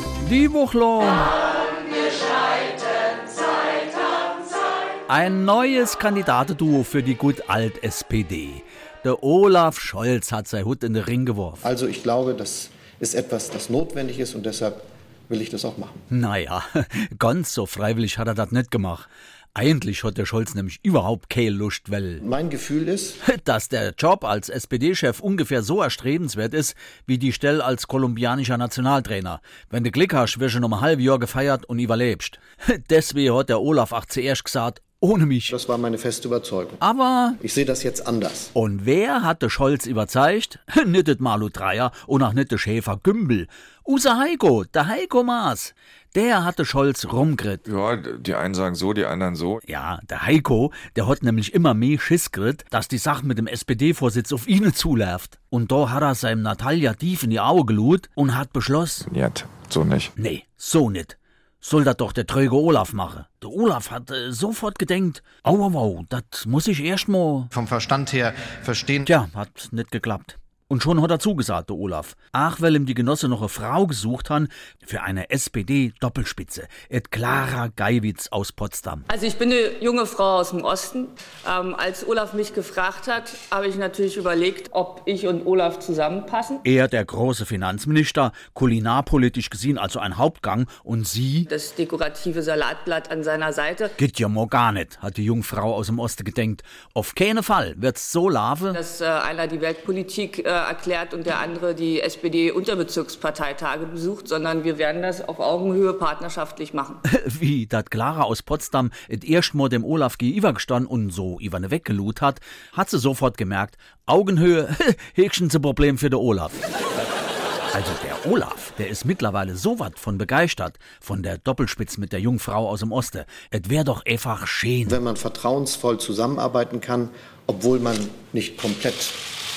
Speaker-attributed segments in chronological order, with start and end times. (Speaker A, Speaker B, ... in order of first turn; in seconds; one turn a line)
Speaker A: 0.2-1.4
Speaker A: 5.1-11.6
Speaker B: 11.6-16.0
Speaker A: 16.1-22.2
Speaker B: 22.2-23.2
Speaker A: 23.2-35.5
Speaker B: 35.5-36.8
Speaker A: 36.8-37.4
Speaker B: 37.4-38.5
Speaker A: 38.5-47.6
Speaker C: 47.7-49.5
Speaker A: 49.6-59.0
Speaker C: 59.2-60.0
Speaker A: 60.2-67.5
Speaker B: 67.5-69.1
Speaker A: 69.0-79.0
Speaker D: 79.1-86.6
Speaker A: 86.6-91.5
Speaker D: 91.5-94.0
Speaker A: 94.0-98.8
Speaker D: 98.7-107.0
Speaker A: 107.0-116.6
Speaker A: 117.7-125.0
Speaker B: 124.9-129.2